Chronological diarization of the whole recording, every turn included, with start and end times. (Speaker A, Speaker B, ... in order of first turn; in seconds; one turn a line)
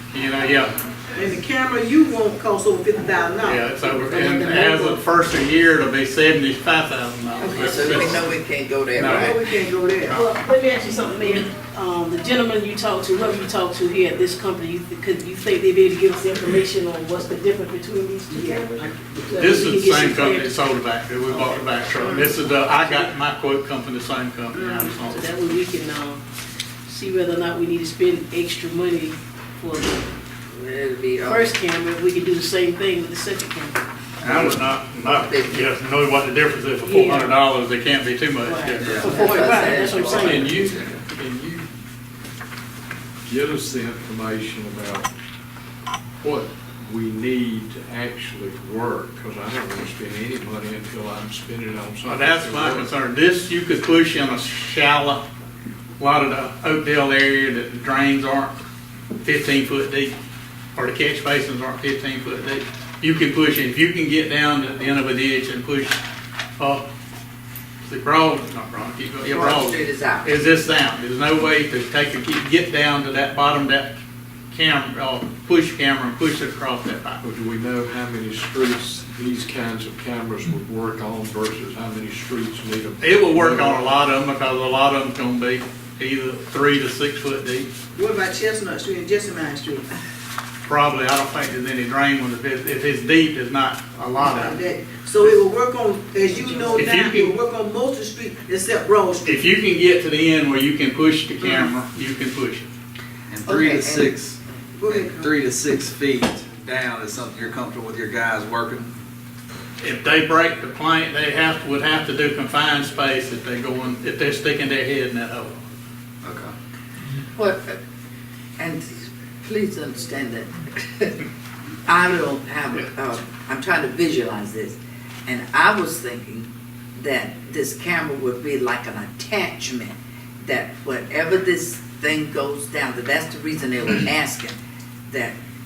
Speaker A: 0.1-0.7
Speaker B: 1.1-3.7
Speaker A: 3.4-8.2
Speaker C: 3.8-5.0
Speaker D: 7.4-9.4
Speaker A: 9.0-9.4
Speaker B: 9.0-10.2
Speaker A: 10.0-10.3
Speaker C: 10.1-20.5
Speaker B: 18.3-19.6
Speaker A: 19.3-25.3
Speaker B: 21.3-22.3
Speaker C: 22.7-23.1
Speaker C: 24.5-26.2
Speaker C: 26.9-30.1
Speaker D: 30.5-31.5
Speaker C: 31.2-33.8
Speaker A: 34.2-39.1
Speaker D: 34.2-35.7
Speaker C: 36.8-37.4
Speaker C: 38.4-40.5
Speaker E: 38.8-41.0
Speaker D: 39.0-40.4
Speaker A: 39.9-41.7
Speaker F: 40.4-40.8
Speaker F: 43.2-45.1
Speaker F: 46.2-52.9
Speaker A: 52.0-55.2
Speaker A: 56.0-58.6
Speaker A: 59.2-60.1
Speaker A: 60.8-66.0
Speaker A: 66.6-66.8
Speaker A: 67.8-73.9
Speaker D: 69.3-70.3
Speaker A: 74.5-77.2
Speaker F: 77.2-83.8
Speaker A: 83.0-87.7
Speaker B: 87.9-89.9
Speaker A: 90.6-94.6
Speaker B: 94.2-99.4
Speaker C: 96.4-96.7
Speaker A: 96.7-97.3
Speaker A: 99.2-102.7
Speaker B: 101.4-101.7
Speaker E: 103.3-108.9
Speaker D: 103.5-104.0
Speaker B: 103.5-104.0
Speaker B: 104.8-105.3
Speaker A: 109.8-115.6
Speaker E: 116.2-116.5
Speaker D: 117.3-117.8
Speaker D: 118.6-118.9
Speaker D: 119.4-121.2
Speaker D: 121.8-134.6
Speaker D: 135.1-135.3